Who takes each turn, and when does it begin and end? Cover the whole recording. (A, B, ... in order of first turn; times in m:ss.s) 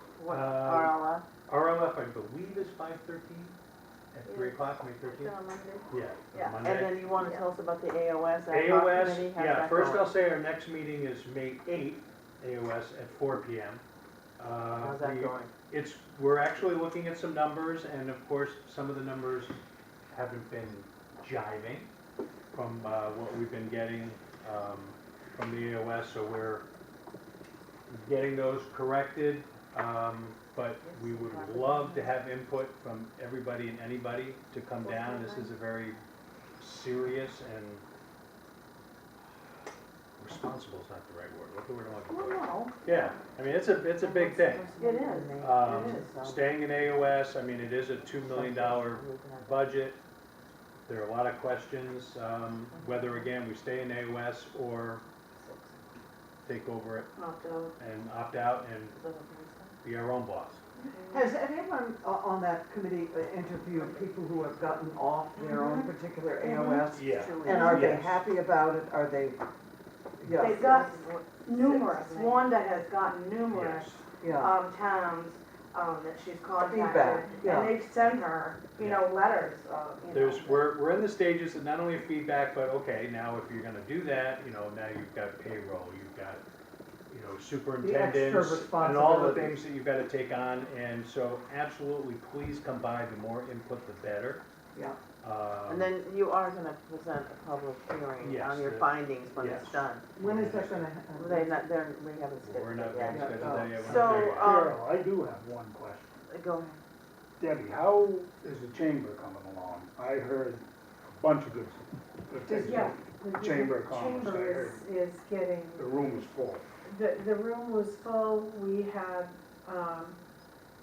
0:00.1-0:01.2 A
0:00.3-0:03.6 B
0:04.1-0:05.4 B
0:04.2-0:06.4 C
0:05.9-0:07.1 B
0:06.6-0:10.2 A
0:07.1-0:07.6 C
0:08.5-0:13.8 B
0:14.4-0:21.9 B
0:14.7-0:15.5 A
0:22.5-0:26.6 B
0:27.9-0:36.0 B
0:35.0-0:35.4 D
0:36.6-0:37.8 B
0:40.2-0:44.7 B
0:42.1-0:42.7 D
0:44.0-0:46.6 A
0:44.8-0:46.0 D
0:45.4-0:50.0 B
0:48.1-0:49.7 A
0:50.8-0:55.0 B
0:52.7-0:53.3 A
0:56.4-0:57.1 B
0:57.1-0:57.7 D
0:57.8-0:59.0 B
0:58.9-0:59.7 A
0:59.8-1:00.6 B
1:01.1-1:09.4 E
1:06.5-1:08.0 A
1:06.9-1:08.2 B
1:10.2-1:11.0 E
1:10.4-1:20.2 D
1:11.8-1:12.4 A
1:13.5-1:14.0 B
1:14.2-1:14.5 E
1:16.6-1:17.8 E
1:18.8-1:19.1 B
1:19.5-1:20.5 A
1:20.1-1:26.4 B
1:27.1-1:34.4 B
1:27.8-1:29.6 E
1:34.7-1:35.0 E
1:35.2-1:35.9 B
1:35.6-1:40.1 A
1:38.2-1:40.9 B
1:40.2-1:41.6 E
1:41.1-1:44.8 A
1:42.4-1:44.7 B
1:43.1-1:44.3 E
1:43.8-1:46.2 F
1:46.3-1:46.8 A
1:47.4-1:54.9 F
1:52.5-1:52.9 E
1:52.5-1:56.0 G
1:55.8-1:56.6 F
1:56.8-2:00.2 G